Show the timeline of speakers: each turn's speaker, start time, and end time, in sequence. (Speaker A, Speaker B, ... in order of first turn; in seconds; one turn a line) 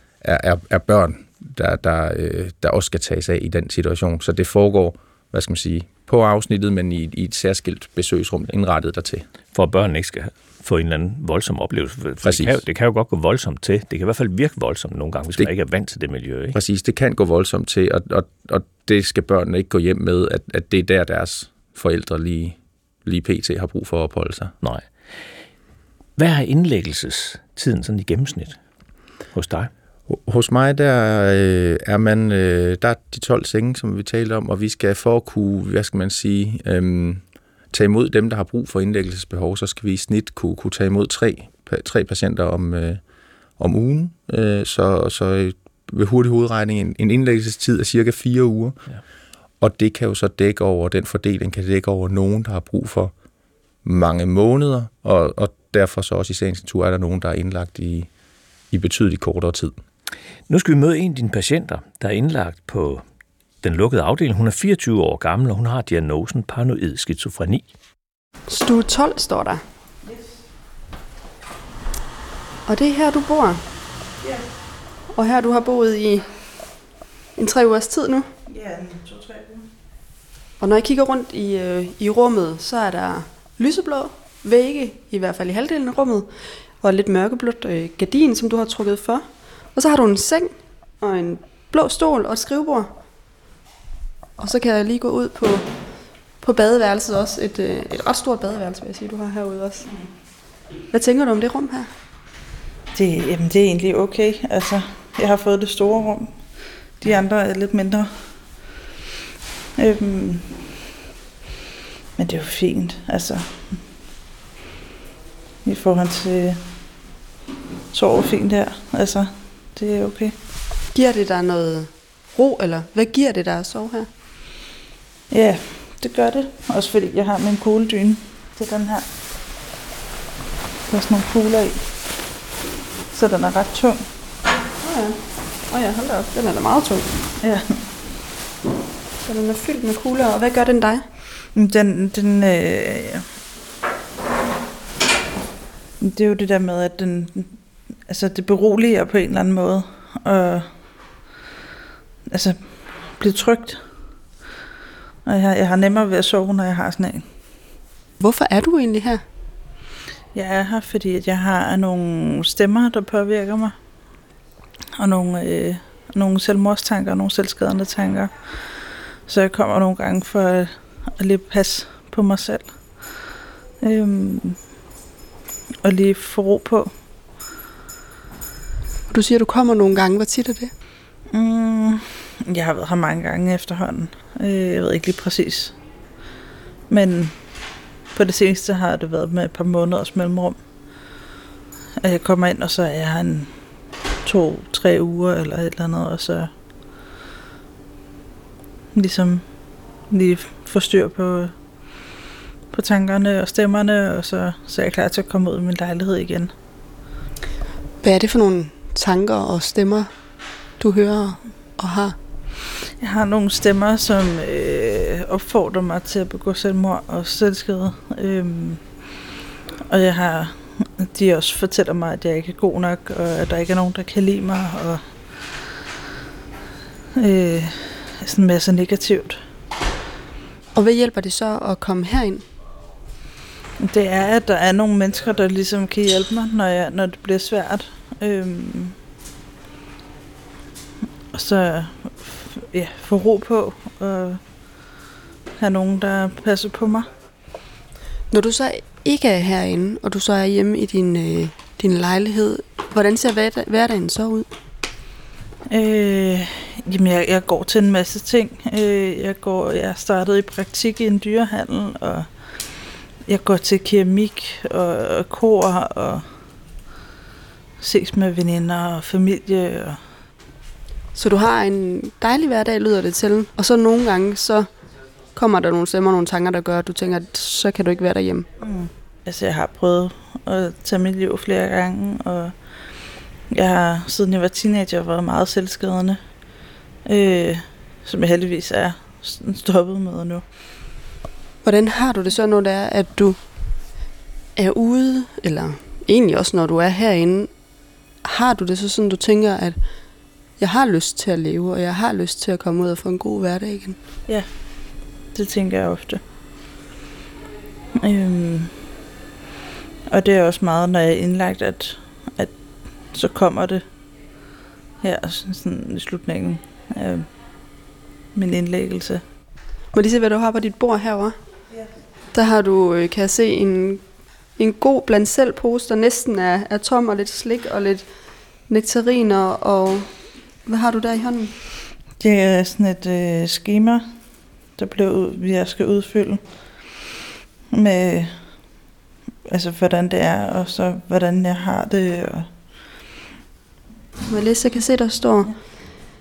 Speaker A: 0.2-9.3
Speaker B: 9.5-16.6
Speaker A: 12.2-12.6
Speaker A: 16.5-24.5
Speaker B: 24.6-24.9
Speaker B: 26.2-28.6
Speaker B: 29.3-29.7
Speaker A: 30.1-43.0
Speaker A: 43.6-48.8
Speaker A: 49.6-53.1
Speaker A: 53.8-58.1
Speaker A: 58.7-59.8
Speaker B: 60.5-63.0
Speaker B: 63.6-67.7
Speaker C: 68.5-69.6
Speaker C: 72.7-73.6
Speaker C: 75.1-76.3
Speaker C: 77.4-78.3
Speaker D: 78.5-79.7
Speaker C: 80.6-86.3
Speaker C: 86.8-92.9
Speaker C: 94.4-95.7
Speaker C: 96.4-99.9
Speaker C: 100.9-101.9
Speaker D: 103.0-106.5
Speaker D: 107.0-108.2
Speaker D: 109.8-110.6
Speaker D: 112.2-113.7
Speaker D: 115.7-116.6
Speaker D: 117.9-120.3
Speaker C: 120.9-124.1
Speaker D: 125.3-129.1
Speaker D: 130.9-131.9
Speaker D: 133.1-134.1
Speaker C: 134.8-137.1
Speaker D: 137.4-137.8
Speaker C: 139.2-141.1
Speaker D: 141.5-143.2
Speaker D: 146.0-150.8
Speaker D: 152.3-153.8
Speaker D: 155.2-157.3
Speaker C: 158.2-159.2
Speaker D: 160.3-163.8
Speaker D: 165.0-173.2
Speaker D: 173.8-174.6
Speaker D: 175.8-176.9
Speaker C: 179.1-180.7
Speaker D: 181.3-185.8
Speaker D: 186.9-187.6
Speaker D: 188.1-190.6
Speaker D: 192.0-193.6
Speaker D: 194.2-196.5
Speaker D: 198.9-201.5
Speaker D: 202.7-206.5
Speaker C: 208.0-210.1
Speaker C: 210.8-212.2
Speaker D: 213.0-219.0
Speaker D: 219.9-225.0
Speaker D: 227.2-229.4
Speaker C: 230.8-232.4
Speaker D: 233.8-239.0
Speaker D: 241.3-244.4
Speaker D: 245.6-247.1
Speaker C: 248.3-254.5
Speaker D: 255.7-262.3
Speaker D: 263.3-266.3
Speaker D: 267.8-270.0
Speaker C: 271.1-274.7
Speaker C: 275.4-278.5
Speaker D: 278.6-282.6
Speaker D: 283.5-286.2
Speaker D: 287.1-290.4
Speaker C: 291.6-293.4
Speaker C: 294.6-297.5
Speaker C: 298.2-299.8
Speaker C: 300.6-304.0
Speaker D: 305.3-306.2
Speaker D: 308.0-308.8
Speaker D: 310.1-312.6
Speaker D: 313.1-313.8
Speaker D: 315.0-317.3
Speaker D: 318.3-319.2
Speaker C: 319.9-321.4
Speaker C: 322.3-324.0
Speaker C: 324.6-328.1
Speaker C: 328.7-330.1
Speaker C: 330.6-331.5
Speaker D: 332.2-334.1
Speaker D: 334.7-336.4
Speaker D: 337.7-338.6
Speaker D: 339.5-342.5
Speaker C: 344.3-345.5